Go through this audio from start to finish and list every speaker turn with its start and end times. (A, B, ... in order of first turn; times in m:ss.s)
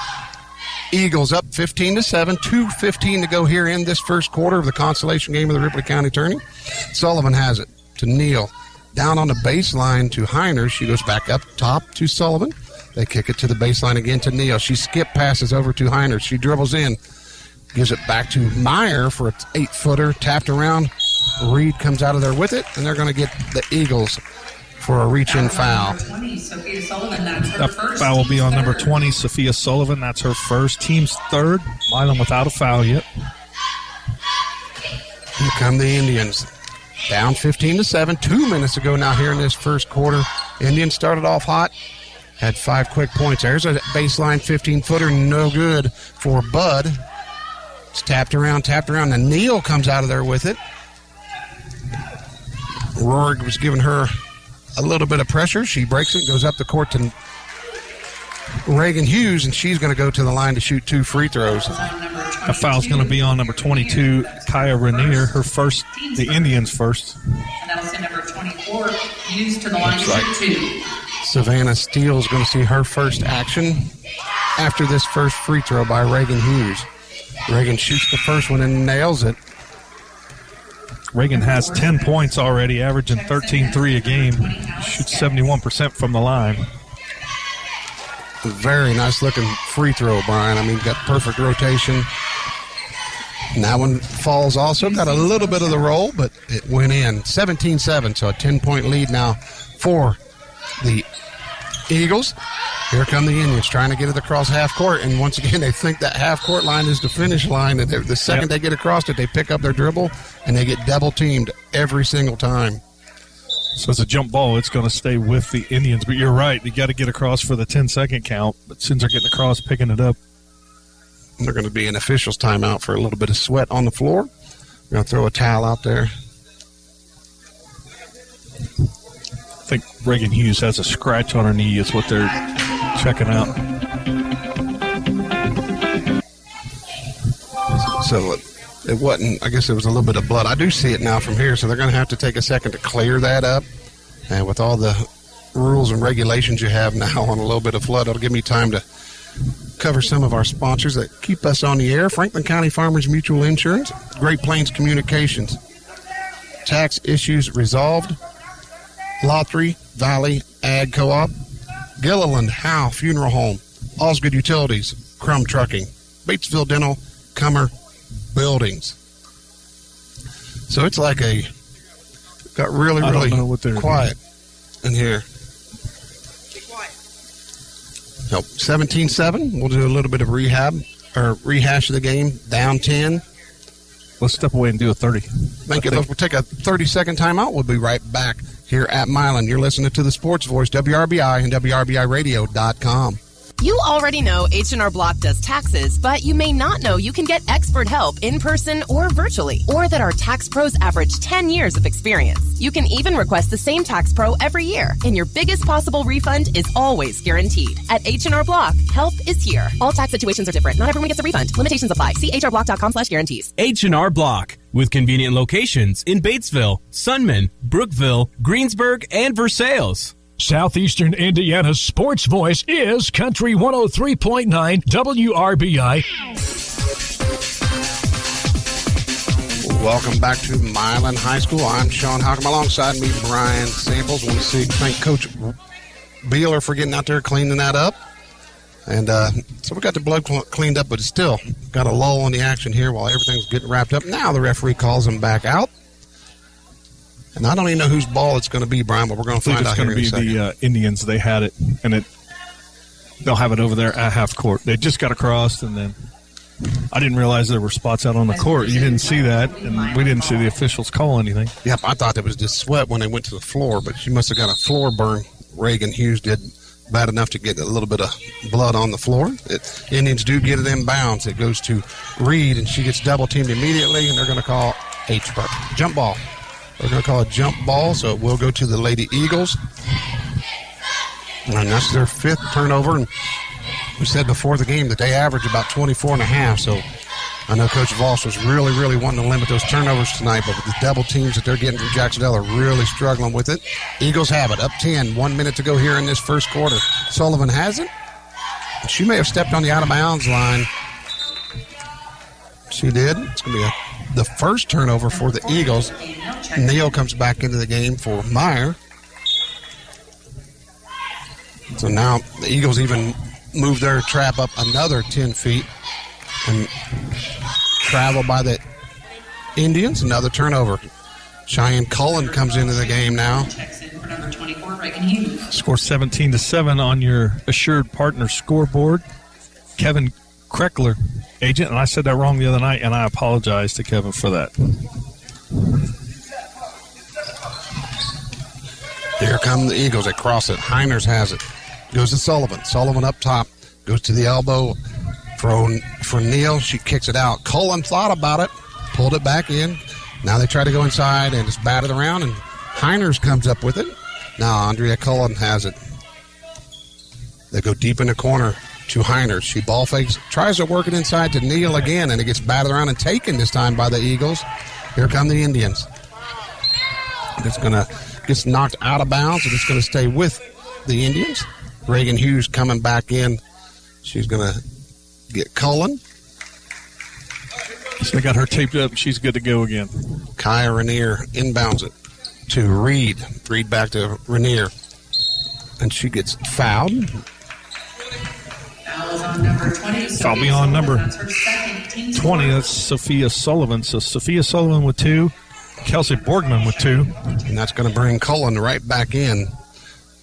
0:00.9-0:17.0 A
0:17.7-0:24.2 A
0:24.8-0:26.0 A
0:25.3-0:29.0 B
0:27.6-0:33.0 C
0:35.4-0:36.5 A
0:37.1-0:41.7 A
0:42.4-0:47.0 A
0:47.9-0:50.6 A
0:53.0-0:54.1 A
0:54.8-0:57.1 A
0:58.7-1:01.7 A
1:01.4-1:05.4 B
1:02.5-1:07.2 C
1:05.9-1:06.6 B
1:07.6-1:10.8 B
1:09.8-1:10.2 C
1:09.9-1:10.3 A
1:11.2-1:13.9 A
1:14.6-1:16.9 A
1:17.5-1:19.4 A
1:21.1-1:26.7 C
1:21.3-1:22.4 B
1:23.1-1:25.6 B
1:28.4-1:32.1 A
1:33.6-1:40.2 A
1:34.8-1:35.8 B
1:40.8-1:41.1 A
1:41.9-1:42.4 A
1:42.9-1:52.8 A
1:53.8-2:00.2 C
2:01.4-2:04.3 A
2:04.9-2:06.1 A
2:09.7-2:12.4 C
2:13.0-2:13.6 C
2:17.7-2:23.7 A
2:24.3-2:28.8 A
2:29.8-2:35.6 A
2:36.6-2:38.2 A
2:39.2-2:41.3 A
2:42.0-2:47.7 A
2:48.3-2:49.0 A
2:50.7-2:51.5 A
2:52.5-2:54.2 A
2:53.0-2:54.1 C
2:54.8-2:55.2 A
2:58.3-3:03.2 A
3:04.2-3:06.1 C
3:05.7-3:13.2 A
3:13.6-3:33.5 D
3:33.6-3:40.1 E
3:40.4-3:46.0 F
3:49.6-3:55.6 A
3:56.2-3:58.0 A
3:58.9-4:05.7 A
4:07.4-4:10.4 A
4:09.4-4:12.1 C
4:13.2-4:16.0 C
4:16.9-4:21.5 C
4:18.3-4:20.6 B
4:21.6-4:36.2 A
4:36.8-4:39.6 A
4:41.5-4:43.1 A
4:44.0-4:46.8 A
4:47.5-4:57.9 A
4:58.8-5:00.7 A
5:02.7-5:05.9 A
5:05.1-5:07.1 B
5:06.6-5:08.8 A
5:11.7-5:15.7 A
5:16.4-5:16.7 A
5:17.8-5:18.6 A
5:19.6-5:20.8 A
5:21.5-5:23.5 A
5:22.0-5:25.5 B
5:25.5-5:29.0 C
5:29.8-5:34.5 C
5:39.2-5:44.8 A
5:45.4-5:55.8 A
5:57.5-6:05.9 A
6:07.4-6:13.4 A
6:14.0-6:14.6 A
6:15.3-6:16.0 A
6:18.0-6:19.9 C
6:20.4-6:21.9 A
6:22.5-6:24.7 A
6:25.8-6:27.2 A
6:28.8-6:32.8 B
6:30.2-6:31.1 C
6:32.1-6:35.3 C
6:35.8-6:37.2 C
6:36.1-6:37.4 B
6:37.4-6:39.5 A